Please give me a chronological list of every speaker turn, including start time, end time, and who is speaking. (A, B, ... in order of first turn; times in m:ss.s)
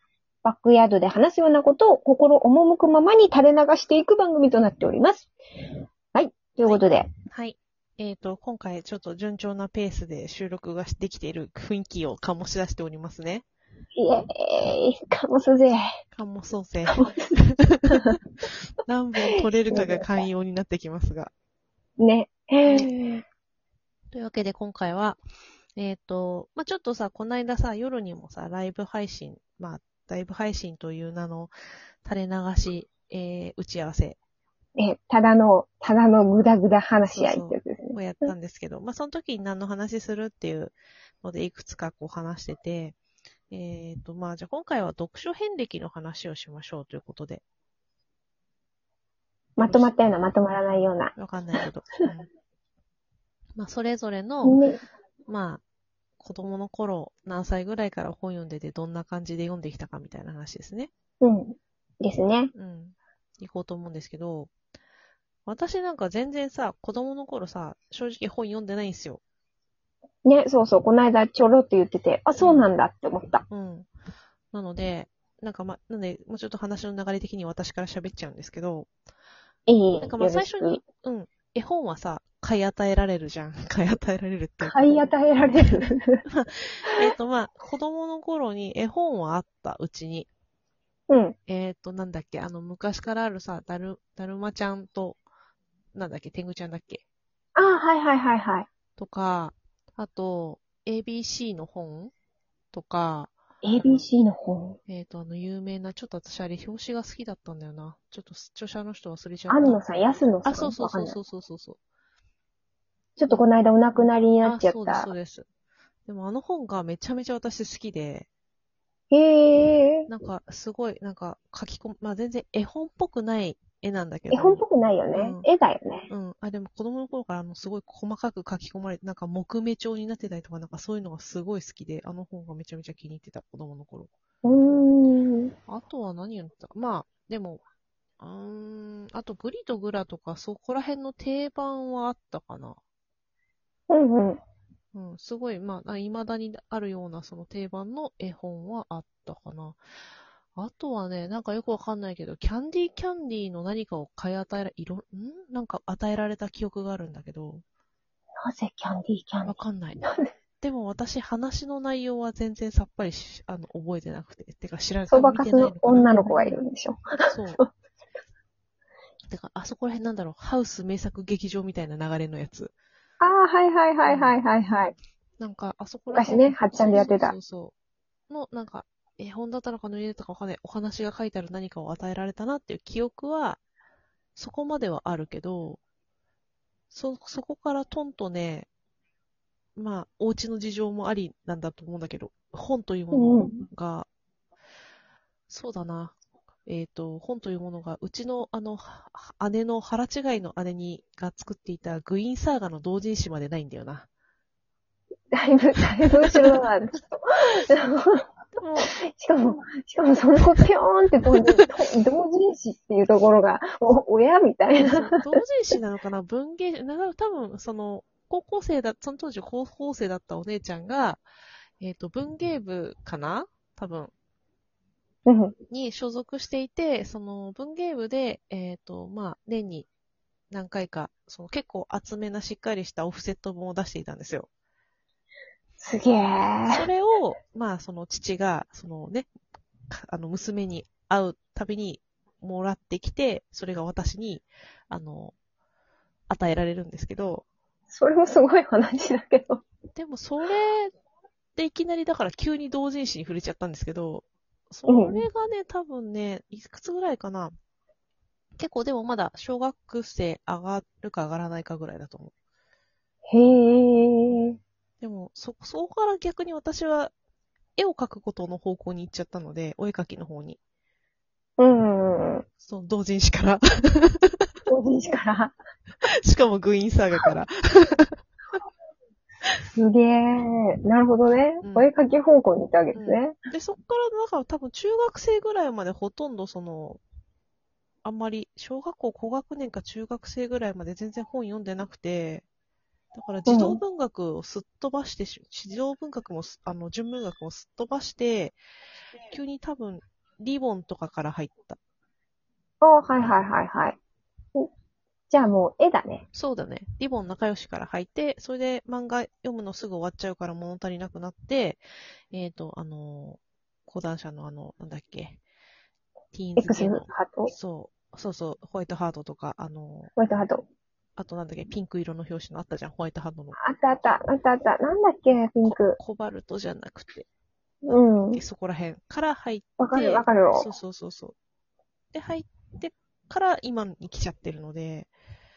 0:00.4-0:07.1 A
0:06.6-0:13.5 B
0:14.0-0:15.8 A
0:16.1-0:18.2 B
0:16.9-0:17.4 A
0:18.8-0:21.3 B
0:19.4-0:20.3 A
0:22.0-0:23.2 A
0:22.6-0:22.9 B
0:24.1-0:25.2 B
0:25.8-0:31.5 B
0:32.0-0:34.2 B
0:34.8-0:38.3 A
0:37.1-0:43.0 B
0:43.5-0:47.4 B
0:49.6-0:51.1 A
0:49.6-0:50.0 B
0:50.7-0:52.3 B
0:53.6-0:54.6 B
0:54.4-0:54.8 A
0:55.3-0:55.6 B
0:56.2-1:00.9 B
1:01.2-1:02.5 A
1:02.5-1:04.5 B
1:05.5-1:09.2 B
1:10.2-1:13.4 A
1:12.4-1:12.7 B
1:13.5-1:13.9 B
1:14.5-1:18.9 B
1:19.7-1:20.8 A
1:20.0-1:24.8 B
1:24.6-1:26.2 A
1:25.6-1:30.3 B
1:31.1-1:31.4 A
1:31.5-1:35.2 B
1:35.9-1:37.0 B
1:37.6-1:38.7 A
1:39.0-1:42.1 B
1:42.7-1:44.0 B
1:43.6-1:44.8 A
1:44.9-1:49.8 B
1:49.5-1:51.2 A
1:50.4-1:51.8 B
1:53.2-1:55.1 A
1:53.3-1:55.5 B
1:56.1-1:58.3 B
1:59.1-2:00.1 A
2:00.1-2:04.6 B
2:04.3-2:06.1 A
2:05.2-2:05.5 B
2:06.1-2:14.1 B
2:14.4-2:15.5 A
2:15.7-2:17.6 B
2:18.2-2:22.8 B
2:23.9-2:24.4 A
2:24.9-2:29.8 B
2:30.6-2:37.6 B
2:38.4-2:40.3 A
2:39.5-2:40.0 B
2:40.6-2:46.6 B
2:45.1-2:47.0 A
2:47.3-2:47.6 B
2:49.3-2:52.7 B
2:53.2-2:54.9 A
2:54.1-2:54.4 B
2:55.4-2:57.7 B
2:56.1-2:57.4 A
2:58.3-3:03.6 B
3:04.4-3:05.8 B
3:06.9-3:08.7 B
3:09.8-3:14.1 B
3:13.1-3:13.6 A
3:15.5-3:24.1 B
3:25.3-3:28.2 A
3:28.6-3:28.9 B
3:28.8-3:35.4 A
3:34.8-3:41.2 B
3:41.8-3:44.1 B
3:45.3-3:45.6 A
3:45.7-3:49.9 B
3:50.5-3:54.5 B
3:55.8-3:56.8 A
3:56.7-3:59.3 B
3:59.9-4:05.3 B
4:06.3-4:07.4 B
4:07.9-4:09.6 A
4:10.0-4:10.9 B
4:11.6-4:17.5 B
4:14.9-4:15.2 A
4:18.6-4:22.3 B
4:23.3-4:24.6 A
4:25.0-4:27.1 B
4:27.8-4:30.6 B
4:31.6-4:32.5 A
4:32.6-4:34.5 B
4:34.7-4:35.6 A
4:36.1-4:38.2 B
4:39.8-4:43.4 A
4:41.6-4:41.9 B
4:43.0-4:47.0 B
4:48.0-4:52.4 B
4:53.1-4:58.6 B
4:53.5-4:53.8 A
4:59.3-5:01.8 B
5:02.8-5:04.0 A
5:05.3-5:06.2 A
5:06.3-5:15.4 B
5:16.3-5:20.1 B
5:16.6-5:17.5 A
5:20.2-5:20.6 A
5:21.2-5:23.6 B
5:23.6-5:26.0 A
5:25.6-5:27.3 B
5:27.8-5:28.4 A
5:27.9-5:31.4 B
5:29.8-5:30.7 A
5:32.1-5:35.1 B